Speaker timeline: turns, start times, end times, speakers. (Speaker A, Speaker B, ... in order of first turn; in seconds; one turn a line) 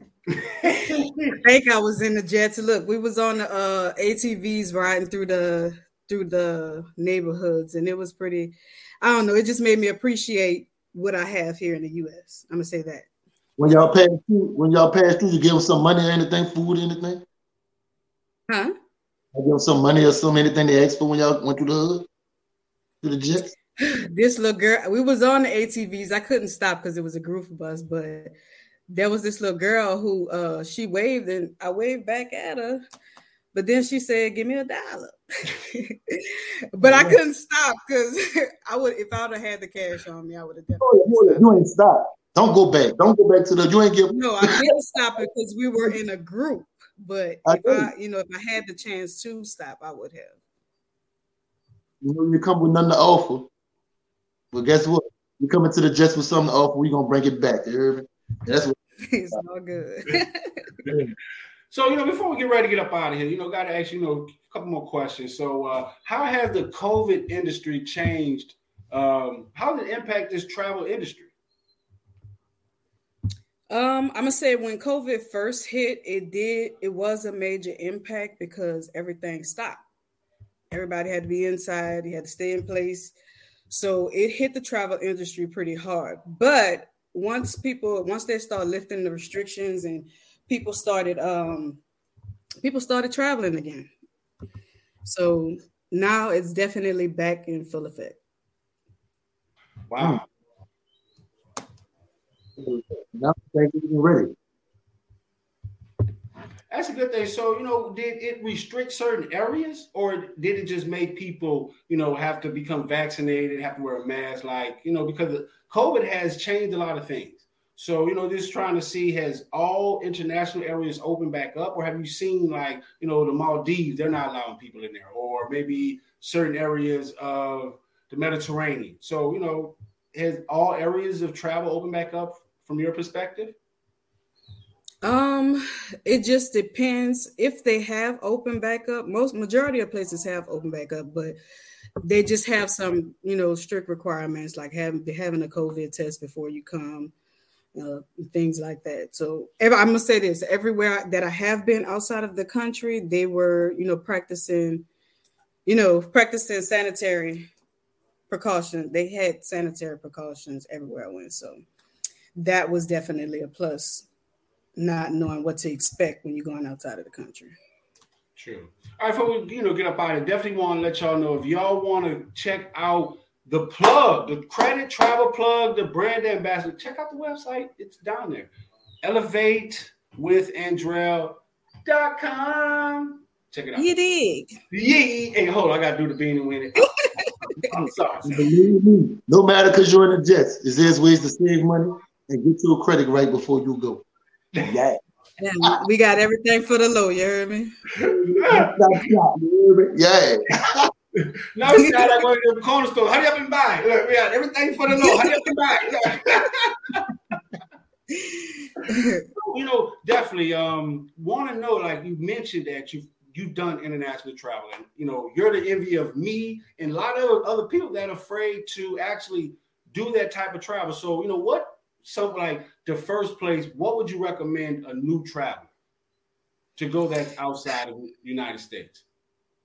Speaker A: 0.3-1.4
Speaker B: 1.4-13.1
Speaker C: 13.6-17.2
Speaker C: 19.3-22.1
Speaker C: 23.0-23.5
Speaker B: 23.8-28.3
Speaker B: 28.9-32.8
Speaker B: 33.5-41.5
Speaker C: 36.8-37.2
Speaker C: 40.8-44.7
Speaker B: 44.1-50.4
Speaker C: 47.5-47.9
Speaker C: 52.0-53.5
Speaker C: 54.5-58.8
Speaker B: 59.1-60.6
Speaker C: 60.9-61.1
Speaker A: 61.7-71.3
Speaker B: 73.7-79.8
Speaker B: 80.7-83.1
Speaker B: 83.7-91.8
Speaker B: 92.6-93.9
Speaker B: 95.0-98.2
Speaker A: 99.9-100.2
Speaker C: 100.0-100.2
Speaker C: 102.6-104.3
Speaker A: 106.7-133.6
Speaker B: 135.0-141.4
Speaker B: 142.0-147.1
Speaker B: 147.7-154.8
Speaker B: 155.7-157.5
Speaker B: 158.3-161.6
Speaker B: 162.3-164.1
Speaker B: 164.8-167.5
Speaker A: 168.3-178.5
Speaker A: 179.0-183.9
Speaker B: 183.8-184.5
Speaker A: 184.7-186.9
Speaker A: 187.6-188.4
Speaker C: 187.6-194.0
Speaker C: 194.6-195.0
Speaker B: 195.4-197.7
Speaker A: 198.0-199.1
Speaker C: 198.0-200.9
Speaker A: 201.5-207.1
Speaker B: 204.9-205.4
Speaker B: 208.2-209.2
Speaker A: 209.3-225.7
Speaker A: 226.8-229.0